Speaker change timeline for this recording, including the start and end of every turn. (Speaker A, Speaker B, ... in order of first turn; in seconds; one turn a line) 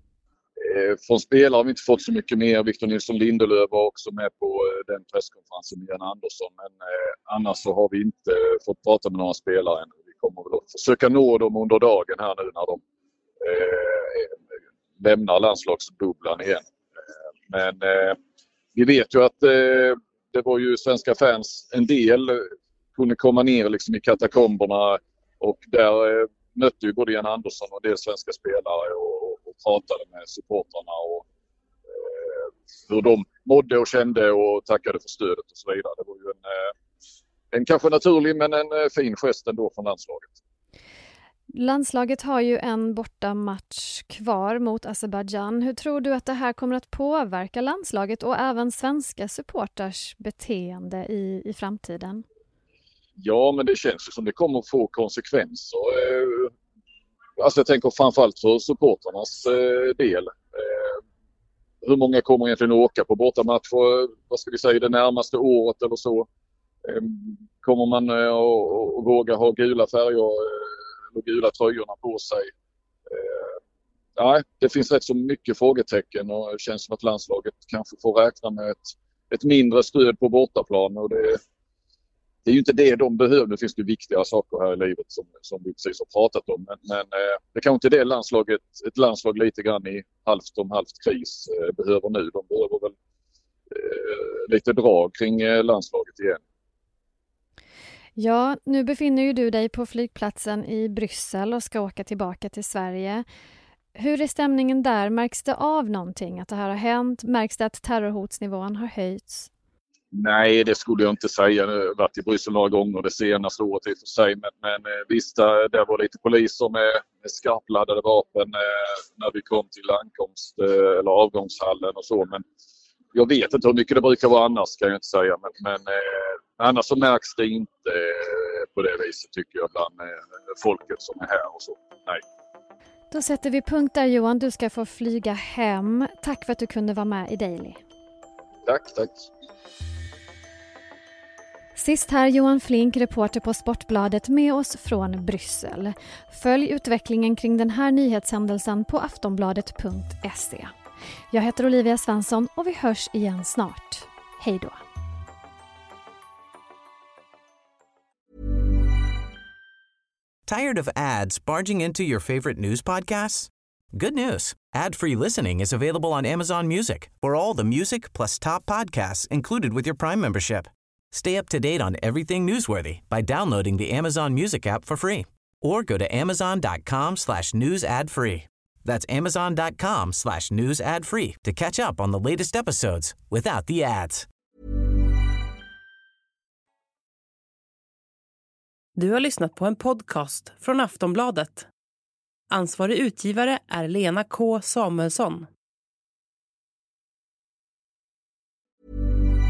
Speaker A: 0.6-12.8
Speaker A: 13.4-14.4
Speaker A: 15.0-16.6
Speaker A: 17.5-18.2
Speaker A: 18.7-31.2
Speaker A: 31.9-36.7
Speaker A: 37.5-40.3
Speaker B: 41.5-52.2
Speaker A: 53.2-56.5
Speaker A: 57.4-61.0
Speaker A: 61.8-66.3
Speaker A: 66.8-72.5
Speaker A: 73.1-73.6
Speaker A: 74.2-81.4
Speaker A: 82.4-92.9
Speaker A: 93.7-96.4
Speaker B: 98.2-103.2
Speaker B: 104.0-109.5
Speaker A: 110.1-122.4
Speaker A: 123.1-132.2
Speaker B: 133.1-137.8
Speaker A: 138.7-139.3
Speaker B: 141.8-150.7
Speaker B: 151.3-154.8
Speaker C: 160.5-184.3
Speaker D: 188.9-191.7
Speaker D: 192.5-195.5